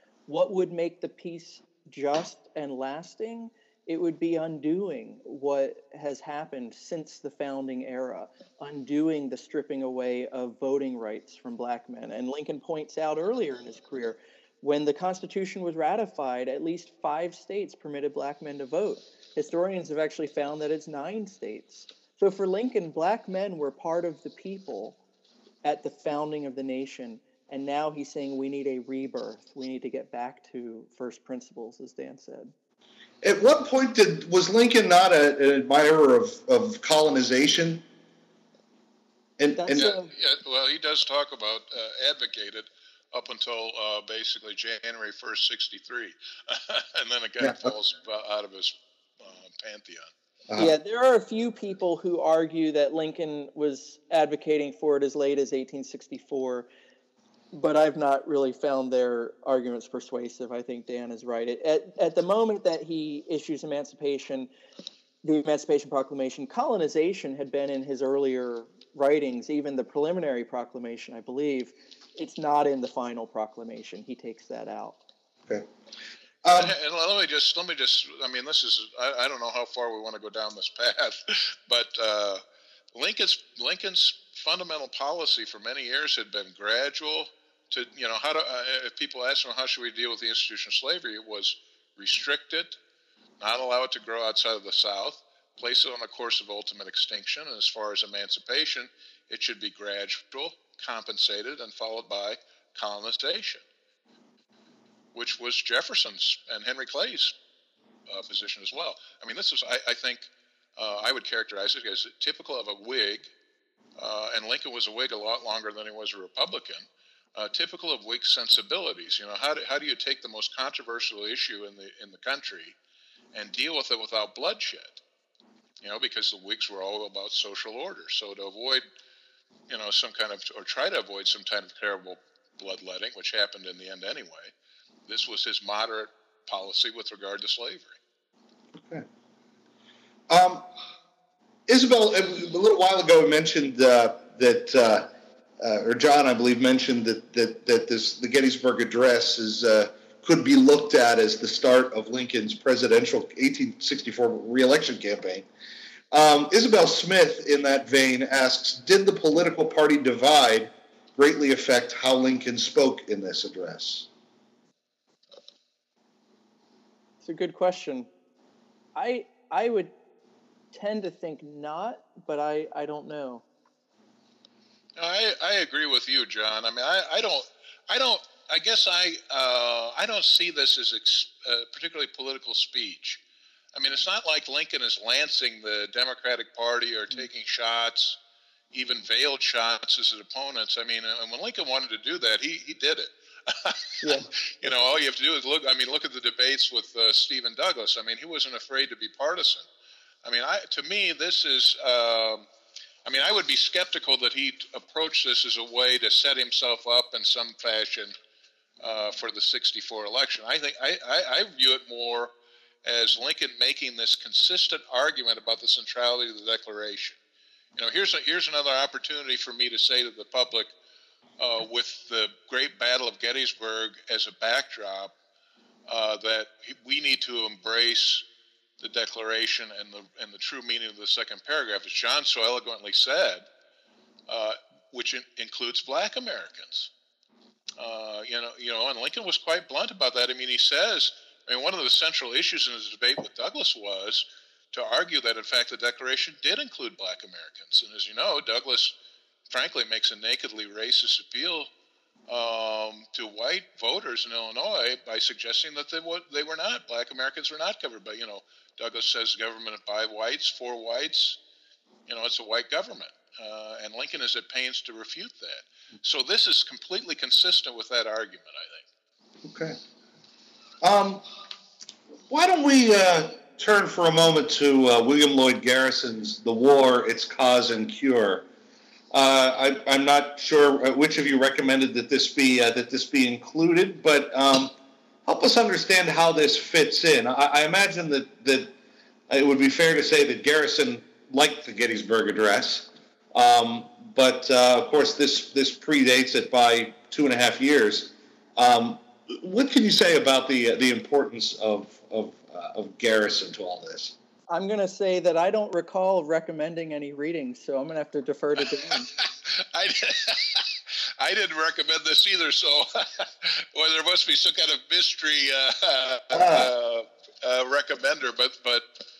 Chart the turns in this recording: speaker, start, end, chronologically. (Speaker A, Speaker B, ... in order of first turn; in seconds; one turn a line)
Speaker A: 0.3-25.0
Speaker A: 25.6-32.5
Speaker B: 33.2-37.8
Speaker B: 39.4-39.9
Speaker A: 39.5-40.1
Speaker C: 39.8-50.1
Speaker B: 47.4-47.7
Speaker A: 50.5-56.7
Speaker A: 57.5-64.5
Speaker A: 65.2-75.0
Speaker B: 76.4-76.7
Speaker C: 76.5-82.4
Speaker C: 82.9-92.8
Speaker C: 93.4-103.6
Speaker C: 105.1-107.3
Speaker C: 108.1-113.3
Speaker C: 114.0-122.8
Speaker C: 123.3-125.0
Speaker C: 125.8-128.8
Speaker C: 129.7-134.5
Speaker C: 135.1-137.9
Speaker B: 140.3-140.7
Speaker B: 141.7-155.5
Speaker B: 156.1-164.1
Speaker A: 167.2-168.1
Speaker A: 168.9-169.9
Speaker A: 170.7-173.4
Speaker C: 174.9-183.2
Speaker C: 183.7-188.2
Speaker C: 188.7-199.7
Speaker A: 194.0-194.8
Speaker C: 200.2-202.4
Speaker C: 203.0-208.1
Speaker C: 208.8-212.3
Speaker C: 212.8-217.2
Speaker C: 217.8-220.7
Speaker C: 221.4-225.1
Speaker C: 225.9-228.2
Speaker C: 228.8-233.4
Speaker C: 234.3-236.9
Speaker C: 237.8-248.9
Speaker C: 249.5-251.7
Speaker C: 252.3-261.4
Speaker C: 262.1-268.8
Speaker B: 269.4-269.8
Speaker B: 270.8-271.2
Speaker B: 272.3-278.5
Speaker B: 279.1-284.7
Speaker B: 285.2-288.7
Speaker B: 289.3-304.1
Speaker A: 304.5-309.1
Speaker C: 309.1-319.1
Speaker B: 316.3-316.7